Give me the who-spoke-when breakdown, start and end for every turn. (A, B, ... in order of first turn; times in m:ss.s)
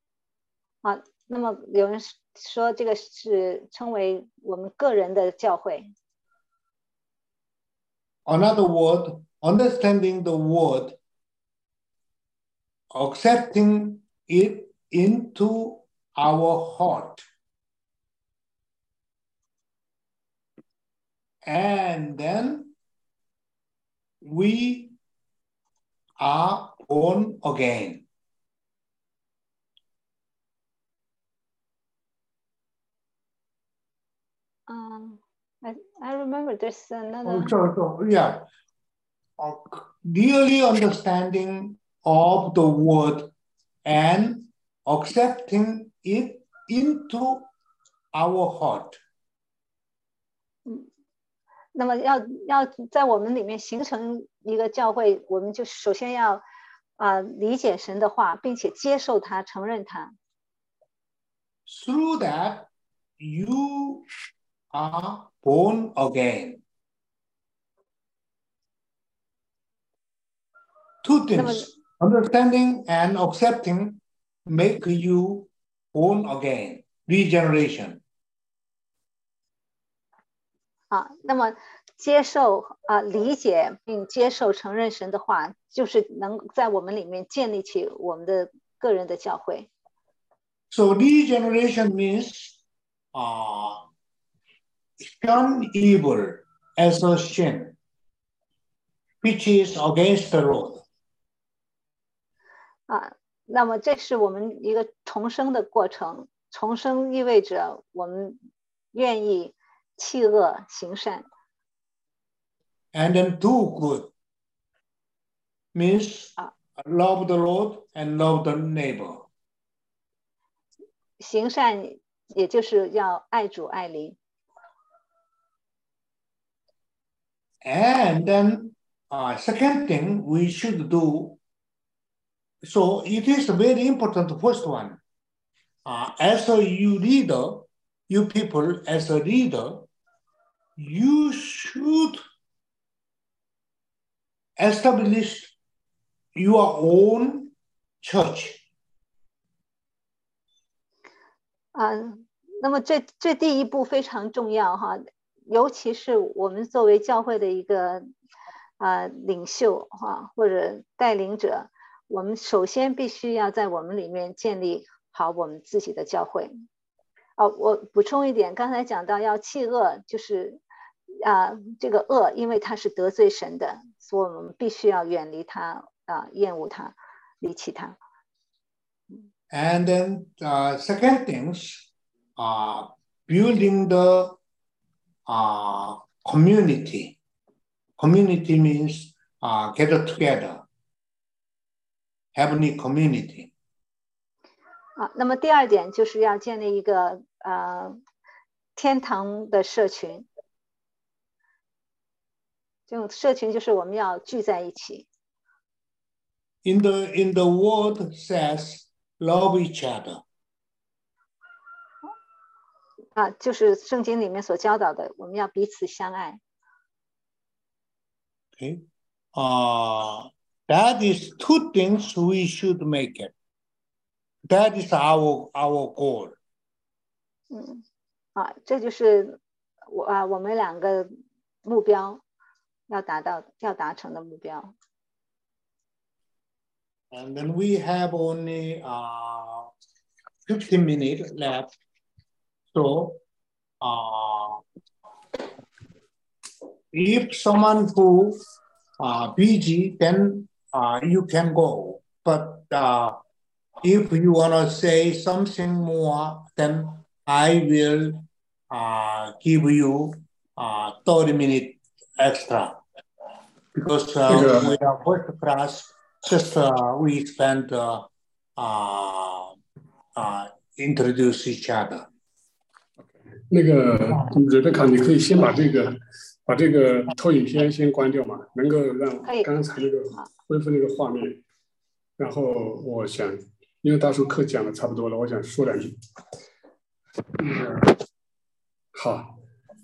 0:00.8-0:05.9 A
0:08.3-0:11.0 B
0:12.9-0:17.2 B
0:21.4-0:22.7 B
0:24.2-0:24.9 B
0:26.2-0:28.0 B
0:34.7-0:37.5 A
0:37.2-0:38.4 B
0:39.4-0:43.3 B
0:43.8-0:47.5 B
0:48.1-0:49.0 B
0:51.7-0:56.4 A
0:57.0-1:00.2 A
1:01.6-1:02.7 B
1:03.2-1:04.1 B
1:04.7-1:06.6 B
1:11.0-1:18.0 B
1:11.4-1:11.7 A
1:20.9-1:29.7 A
1:30.7-1:32.6 B
1:33.1-1:33.9 B
1:35.0-1:37.7 B
1:39.2-1:40.8 B
1:42.9-1:48.4 A
1:48.9-1:51.3 A
1:52.9-1:54.1 B
1:55.7-1:59.2 B
2:01.2-2:04.2 A
2:07.6-2:11.4 B
2:12.6-2:15.0 B
2:15.8-2:19.9 B
2:20.8-2:22.2 B
2:24.6-2:25.5 B
2:26.4-2:28.6 B
2:31.7-2:38.1 A
2:38.8-2:46.5 A
2:47.4-2:50.6 A
2:51.2-2:58.0 A
2:59.5-3:04.4 B
3:05.3-3:07.2 B
3:08.0-3:10.6 B
3:12.4-3:13.5 B
3:15.0-3:18.0 A
3:18.8-3:20.3 A
3:22.9-3:25.1 A
3:26.6-3:30.2 B
3:33.1-3:36.4 A
3:38.6-3:38.8 B
3:39.4-3:43.3 B
3:44.5-3:46.4 B
3:47.5-3:47.8 A
3:48.4-3:51.1 A
3:51.6-3:52.2 A
3:52.9-3:54.7 A
3:57.1-3:59.7 B
4:00.4-4:01.7 B
4:02.7-4:03.2 B
4:03.8-4:04.6 B
4:06.9-4:08.4 B
4:09.0-4:13.2 B
4:13.8-4:22.8 B
4:23.7-4:29.6 B
4:24.3-4:24.7 C
4:30.2-4:32.1 B
4:33.0-4:41.4 C
4:42.2-4:46.0 C
4:47.4-4:47.9 C
4:48.9-4:49.4 C